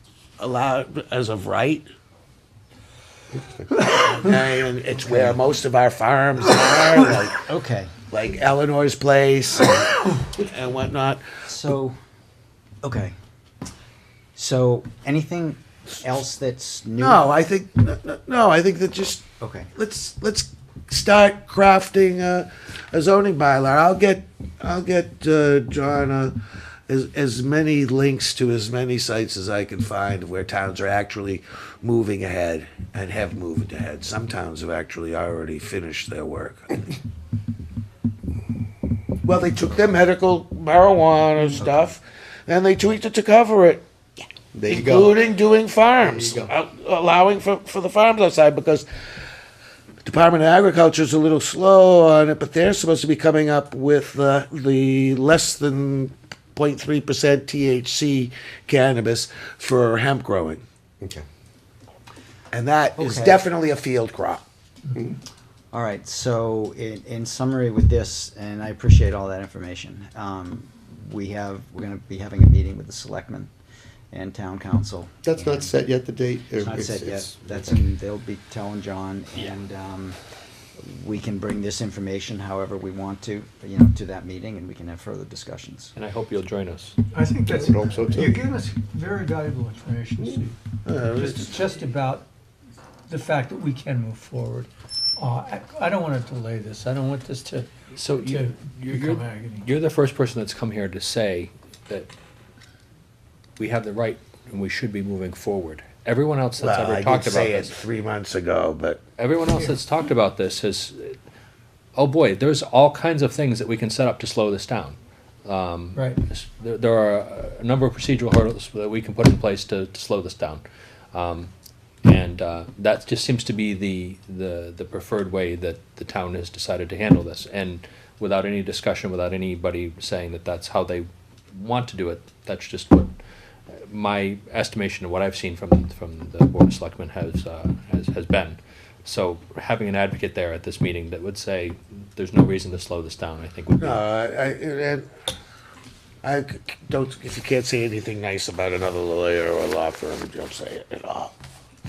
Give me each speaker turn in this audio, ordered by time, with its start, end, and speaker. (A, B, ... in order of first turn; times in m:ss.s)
0:00.4-0:01.9 A
0:03.3-0:03.6 B
0:03.8-0:07.4 A
0:05.0-0:05.4 C
0:07.4-0:07.9 C
0:08.1-0:11.2 A
0:11.4-0:12.0 C
0:12.8-0:13.1 C
0:14.4-0:17.2 C
0:17.0-0:36.9 A
0:19.4-0:19.7 C
0:39.2-0:43.8 A
0:44.5-0:45.2 B
0:44.7-0:48.8 A
0:46.0-0:46.5 B
0:50.0-1:00.6 A
1:02.5-1:04.4 A
1:03.0-1:03.4 C
1:05.7-1:13.5 C
1:14.1-1:15.8 C
1:15.2-1:17.7 B
1:16.6-1:20.2 C
1:20.8-1:25.9 C
1:26.0-1:27.0 D
1:27.1-1:30.5 E
1:27.5-1:28.4 B
1:30.8-1:31.6 A
1:31.1-1:32.2 E
1:33.1-1:39.6 E
1:37.9-1:42.1 D
1:43.6-1:47.8 D
1:46.6-1:49.0 A
1:49.2-1:51.2 D
1:52.0-2:01.5 D
1:55.9-1:56.2 E
2:02.0-2:13.1 D
2:13.9-2:24.0 D
2:23.8-2:25.1 A
2:26.2-2:31.3 A